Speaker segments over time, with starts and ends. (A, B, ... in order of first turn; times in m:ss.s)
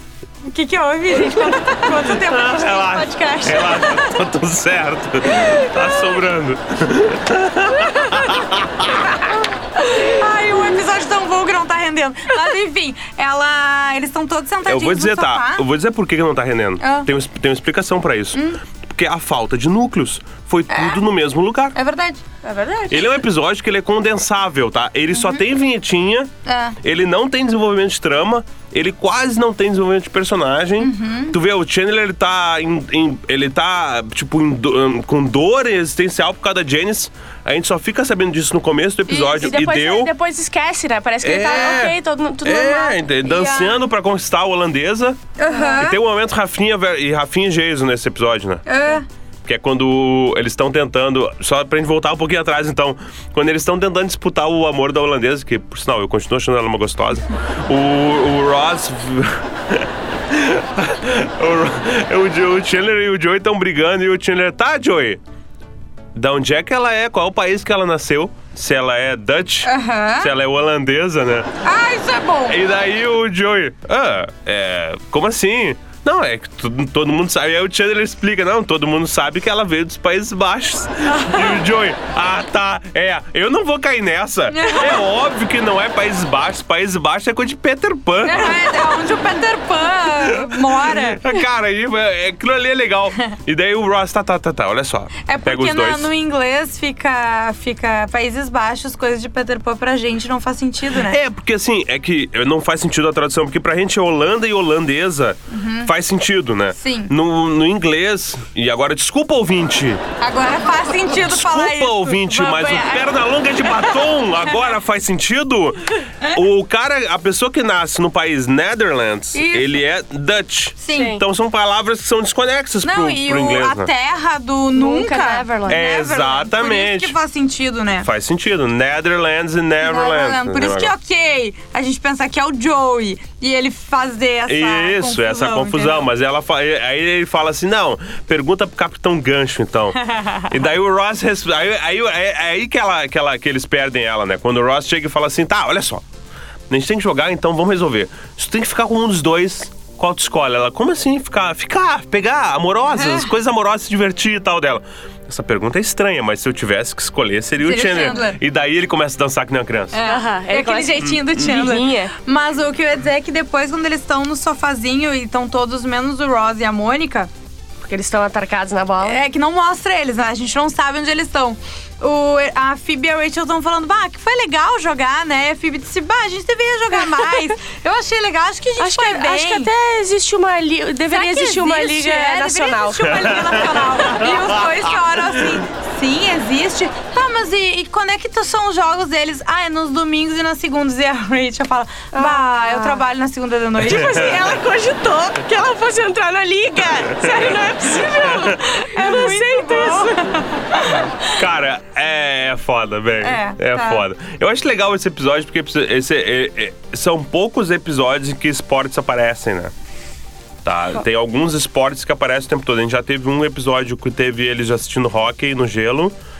0:00.4-0:04.2 A
0:02.1-0:09.1 B
0:09.8-0:15.6 A
0:14.6-0:21.8 B
0:16.8-0:17.1 A
0:18.3-0:18.6 A
0:20.7-0:21.0 A
0:21.7-0:22.2 A
0:22.4-0:23.1 C
0:22.9-0:26.3 B
0:26.4-0:26.8 A
0:26.8-0:40.1 B
0:30.8-0:31.4 A
0:39.1-0:39.6 A
0:39.3-0:43.0 C
0:41.2-0:45.2 B
0:43.2-0:43.8 A
0:45.4-0:46.0 A
0:45.8-0:48.6 B
0:48.6-0:49.0 A
0:49.4-1:05.2 B
1:06.1-1:11.5 B
1:09.6-1:10.3 A
1:11.6-1:12.6 A
1:12.5-1:29.0 B
1:21.1-1:21.5 A
1:24.5-1:25.0 A
1:28.2-1:31.3 A
1:30.2-1:36.1 B
1:35.2-1:41.2 A
1:40.9-1:50.0 B
1:45.5-1:45.9 A
1:46.8-1:47.1 A
1:50.2-1:53.1 A
1:51.0-2:03.9 B
1:53.6-1:54.0 A
1:59.3-1:59.8 A
2:00.8-2:01.2 A
2:00.9-2:01.2 C
2:02.8-2:08.1 A
2:04.7-2:05.8 C
2:05.7-2:07.2 B
2:08.0-2:10.9 B
2:09.8-2:16.1 A
2:14.5-2:26.0 B
2:20.1-2:20.5 A
2:26.7-2:40.0 B
2:32.9-2:33.3 A
2:37.6-2:38.4 A
2:39.9-2:47.3 A
2:40.0-2:42.1 C
2:47.8-2:49.2 C
2:49.0-2:59.7 A
2:58.8-3:03.4 C
3:01.1-3:14.6 A
3:03.1-3:05.6 B
3:12.1-3:13.0 C
3:13.8-3:20.4 C
3:13.8-3:14.4 B
3:17.0-3:18.6 B
3:18.8-3:21.3 A
3:21.3-3:29.7 B
3:23.2-3:24.0 A
3:30.6-3:36.1 B